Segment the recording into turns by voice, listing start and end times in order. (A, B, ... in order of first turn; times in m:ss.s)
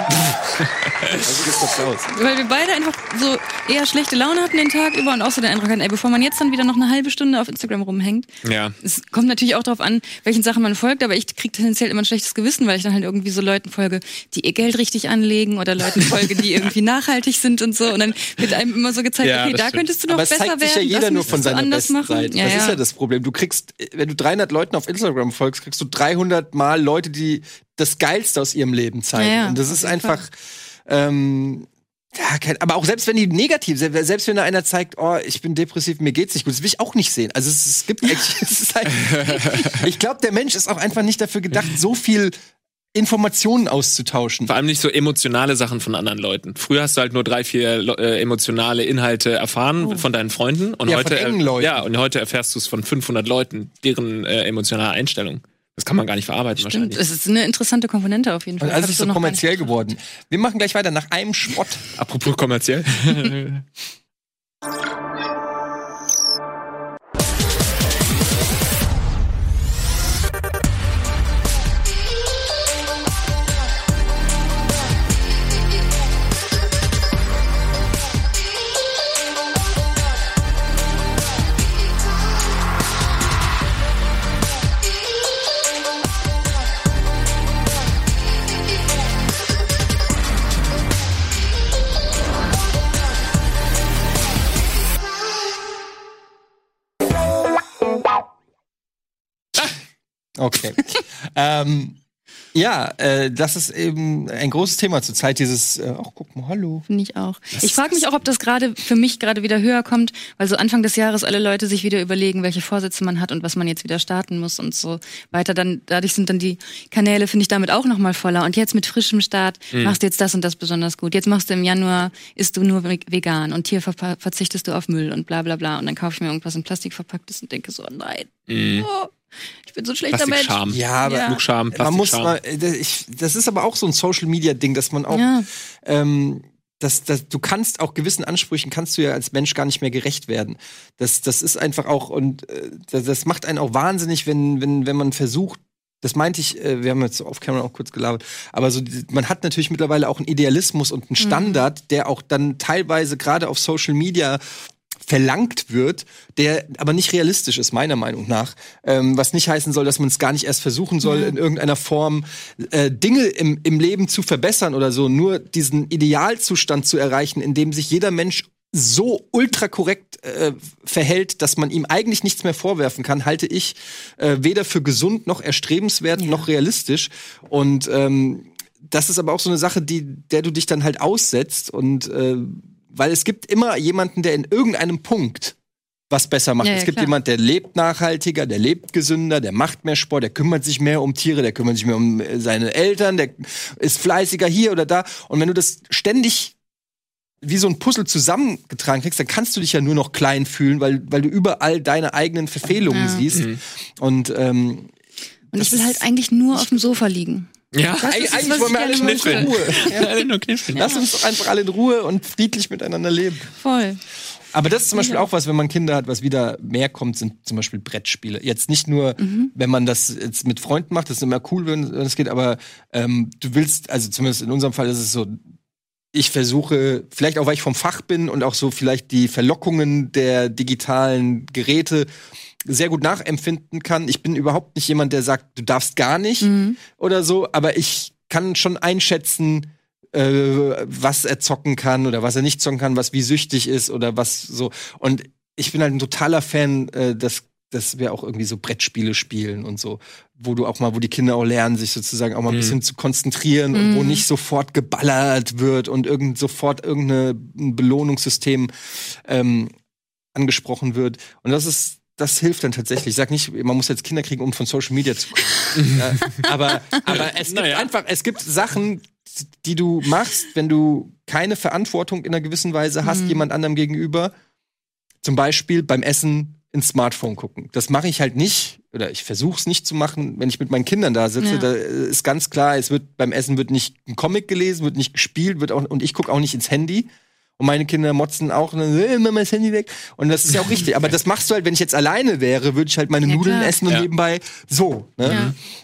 0:00.6-0:01.4 A
0:01.1-0:02.1 B
0:02.1-0:08.3 C
0:08.4-0:08.8 A
0:08.8-0:22.8 C
0:16.0-0:16.7 A
0:19.2-0:19.8 A
0:20.1-0:30.3 B
0:29.2-0:30.2 C
0:30.9-0:42.4 B
0:38.9-0:39.9 A
0:42.9-0:44.5 B
0:44.5-0:57.0 A
0:50.9-0:51.9 B
0:56.6-0:59.7 C
0:58.6-1:01.8 B
1:02.0-1:03.6 A
1:40.4-1:42.0 B
1:42.5-1:46.8 B
1:46.9-2:09.1 C
1:47.5-1:48.0 A
1:59.7-2:00.0 A
2:08.5-2:08.9 A
2:09.6-2:11.4 C
2:10.1-2:12.4 A
2:10.7-2:15.3 B
2:15.1-2:15.5 C
2:15.8-2:34.4 B
2:31.2-2:31.6 C
2:35.0-3:05.6 B
2:41.0-2:41.4 C
2:56.2-2:56.4 C
3:06.1-3:16.6 B
3:06.6-3:07.1 C
3:17.4-3:24.9 B
3:22.9-3:23.2 C
3:23.3-3:23.6 A
3:25.5-3:27.5 C
3:25.6-3:26.0 B
3:26.5-3:27.0 B
3:27.7-3:30.9 A
3:28.0-3:29.9 C
3:28.0-3:30.1 B
3:30.7-3:33.5 B
3:30.8-3:31.0 C
3:33.6-3:34.0 C
3:34.5-3:45.4 B
3:35.0-3:35.2 C
3:39.2-3:39.5 C
3:46.1-3:52.1 B
3:52.7-4:18.7 B
3:56.4-3:56.8 C
4:12.5-4:12.8 A
4:13.7-4:14.2 C
4:19.2-4:19.7 B
4:20.4-4:34.3 B
4:25.8-4:26.5 A
4:27.0-4:27.9 A
4:33.0-4:33.4 C
4:35.2-4:47.1 B
4:41.4-4:41.7 C
4:47.6-4:55.5 B
4:53.3-4:53.8 C
4:55.2-4:55.6 A
4:55.3-4:55.5 C